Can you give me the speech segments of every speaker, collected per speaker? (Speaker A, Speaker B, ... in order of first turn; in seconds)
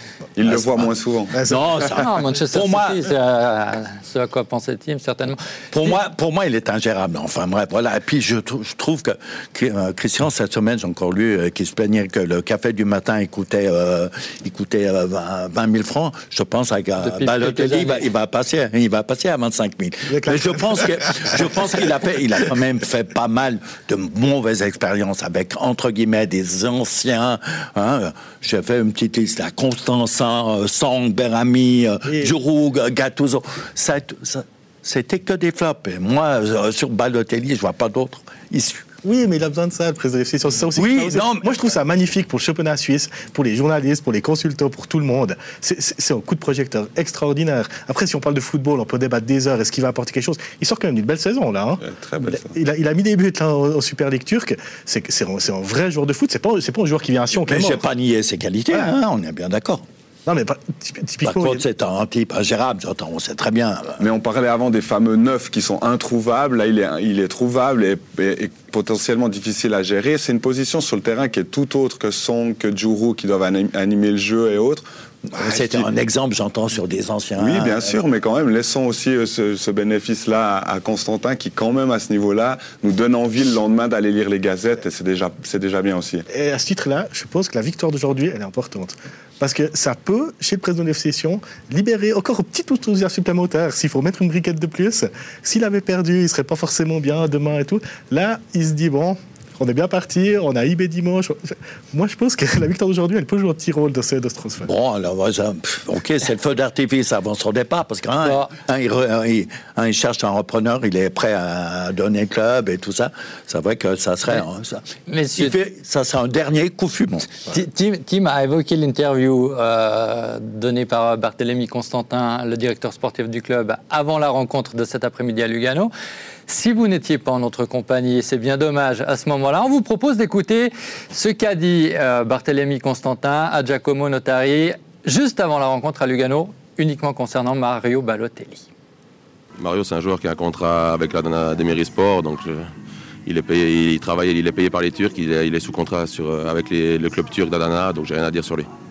Speaker A: 0.3-1.6, 51.9-52.5, 64.0-74.8, 75.3-75.9, 77.4-86.2
Speaker B: 0.5-3.0, 5.7-38.8, 40.8-41.5, 57.5-59.8, 61.2-64.0, 75.3-78.0, 104.6-117.3
Speaker C: 1.3-1.8, 20.1-21.5, 32.0-32.3, 39.0-57.8, 60.2-61.6, 86.3-104.7
Speaker D: 1.8-6.0, 17.0-18.1, 108.2-108.5, 115.1-115.5, 117.5-125.9, 126.5-138.7
Speaker E: 139.6-142.7, 143.2-148.7